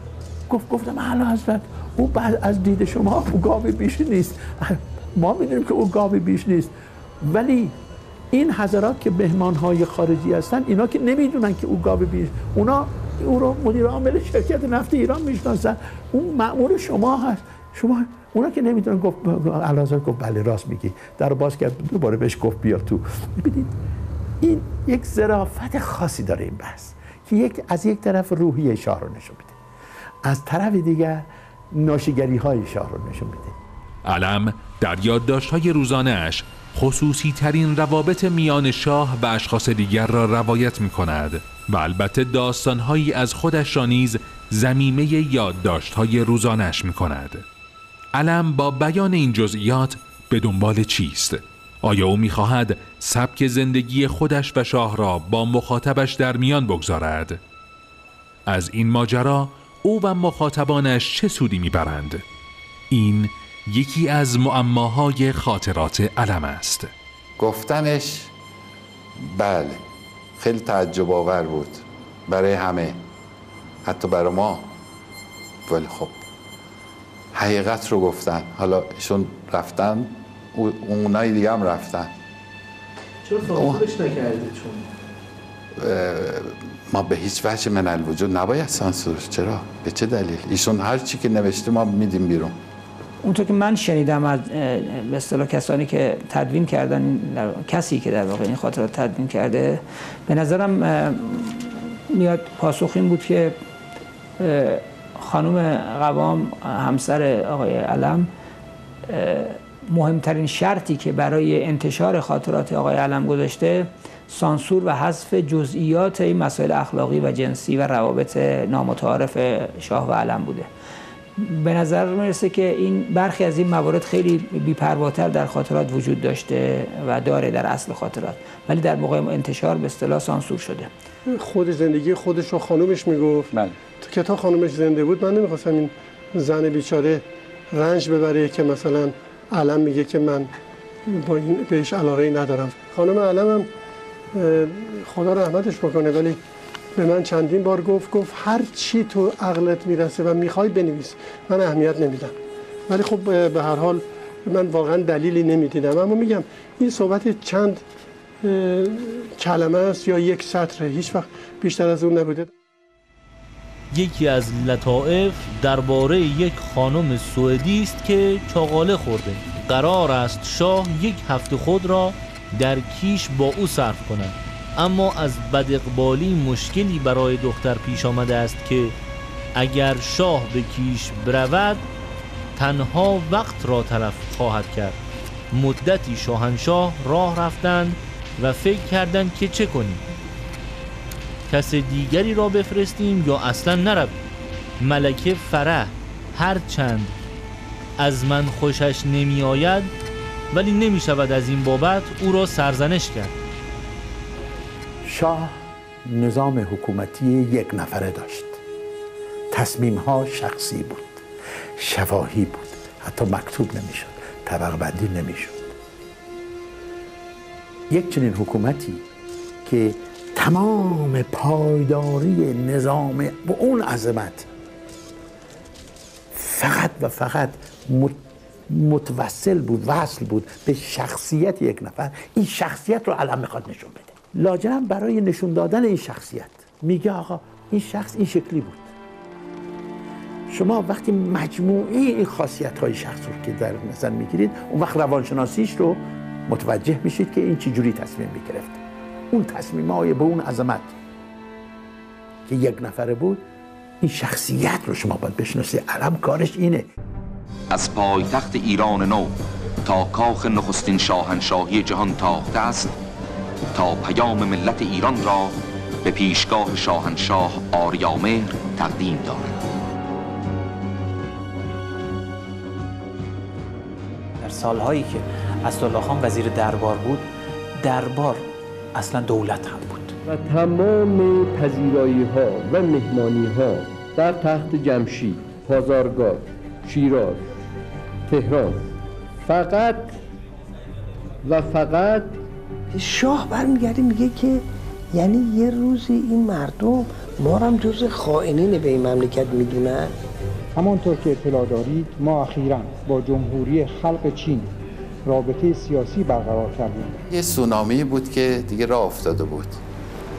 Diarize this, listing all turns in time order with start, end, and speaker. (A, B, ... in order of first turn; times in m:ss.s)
0:00.5-0:07.8 A
0:08.3-0:23.8 A
0:24.4-0:29.6 A
0:30.2-0:33.6 A
0:34.0-0:47.4 B
0:48.1-0:57.4 B
0:58.5-1:02.2 B
1:02.9-1:06.9 B
1:07.4-1:08.3 C
1:09.2-1:09.8 C
1:10.4-1:13.0 C
1:13.8-1:14.7 C
1:15.7-1:16.2 C
1:17.3-1:22.1 C
1:23.3-1:24.8 D
1:23.5-1:23.9 C
1:25.8-1:32.6 C
1:33.2-1:43.6 E
1:44.4-1:48.3 E
1:49.1-2:00.7 E
2:01.4-2:10.9 E
2:11.3-2:20.5 F
2:21.1-2:23.7 F
2:24.3-2:26.4 F
2:26.9-2:32.3 F
2:32.9-2:37.8 F
2:38.4-2:42.5 F
2:43.9-2:59.0 G
2:59.5-3:01.8 G
3:02.6-3:05.0 G
3:05.5-3:10.0 G
3:11.5-3:14.2 G
3:14.8-3:17.2 G
3:18.0-3:19.9 G
3:20.5-3:23.4 G
3:25.0-3:28.6 A
3:29.5-3:31.2 A
3:31.8-3:35.7 A
3:37.9-3:39.0 A
3:39.6-3:44.5 A
3:46.3-3:58.9 A
4:00.5-4:11.0 A
4:12.4-4:13.4 A
4:14.0-4:16.9 A
4:17.7-4:19.3 H
4:19.8-4:22.9 H
4:23.7-4:29.6 H
4:34.4-4:37.3 D
4:37.8-4:40.1 D
4:40.2-4:47.5 I
4:48.3-4:48.8 I
4:49.4-4:50.2 I
4:51.4-4:52.4 I
4:52.9-5:00.1 J
5:00.7-5:04.7 K
5:05.2-5:07.2 K
5:07.3-5:09.8 C